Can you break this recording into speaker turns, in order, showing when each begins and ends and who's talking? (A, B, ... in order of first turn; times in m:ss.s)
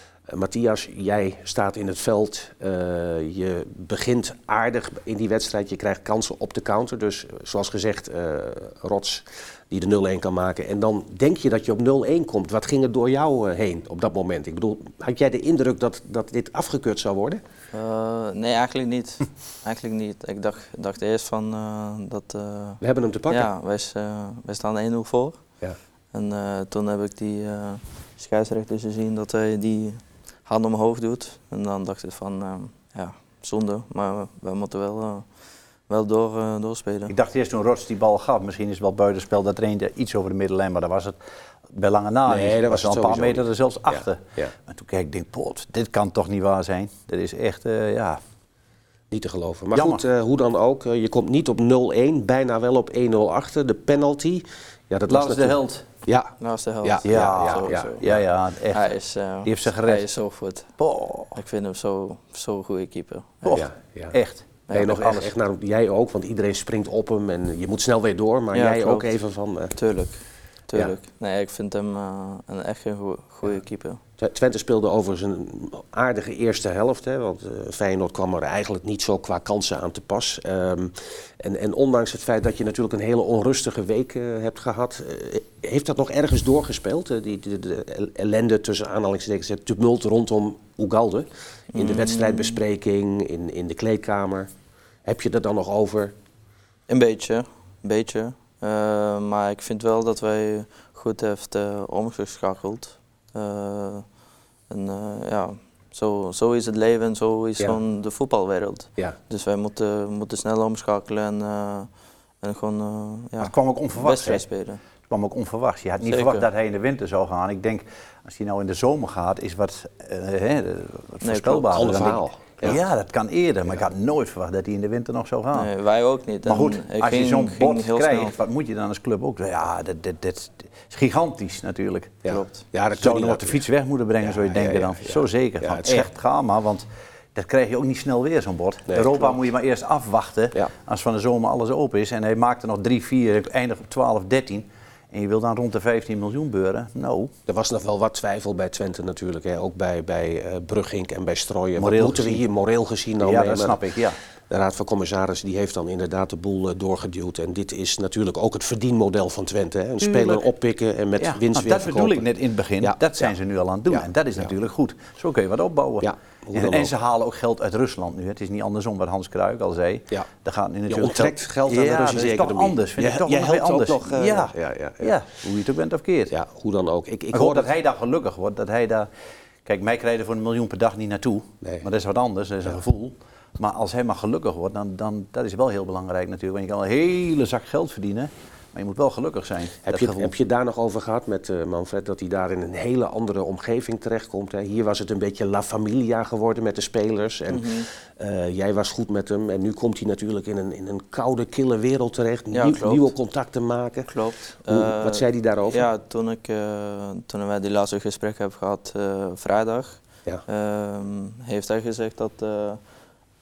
0:00.3-0:17.4 A
0:17.7-0:25.4 B
0:22.8-0:23.5 A
0:26.1-0:35.2 B
0:35.9-0:37.1 B
0:37.1-0:48.2 C
0:42.3-0:44.5 A
0:49.1-0:58.1 A
0:49.7-0:50.0 C
0:55.1-0:55.9 C
0:56.4-0:58.0 B
0:57.0-0:58.9 C
0:58.7-1:00.7 B
0:59.4-1:00.1 C
1:00.8-1:01.4 C
1:01.3-1:03.6 B
1:03.4-1:05.3 C
1:03.5-1:04.2 A
1:04.7-1:09.7 A
1:08.5-1:09.1 B
1:09.7-1:14.0 B
1:14.2-1:34.5 A
1:31.7-1:32.6 B
1:35.0-1:36.1 A
1:36.9-1:44.0 B
1:44.7-1:51.9 B
1:52.4-1:54.8 B
1:53.4-1:54.4 C
1:55.1-2:05.7 C
1:56.0-1:56.4 B
2:01.2-2:02.1 B
2:01.7-2:02.8 A
2:05.5-2:08.4 B
2:06.4-2:12.4 C
2:12.2-2:13.6 A
2:12.3-2:12.5 B
2:12.9-2:27.3 C
2:14.2-2:16.1 A
2:18.9-2:19.3 A
2:27.5-2:33.8 A
2:31.8-2:32.4 C
2:33.2-2:34.2 C
2:34.5-2:42.2 A
2:40.0-2:40.5 C
2:41.2-2:56.3 C
2:42.8-2:43.3 A
2:43.9-2:44.4 A
2:46.0-2:46.9 A
2:50.9-2:55.2 A
2:56.3-2:57.7 A
2:57.3-2:59.1 C
2:59.6-3:10.3 C
3:09.8-3:24.1 A
3:17.5-3:17.9 B
3:22.5-3:23.1 B
3:24.1-3:32.8 B
3:24.6-3:25.9 A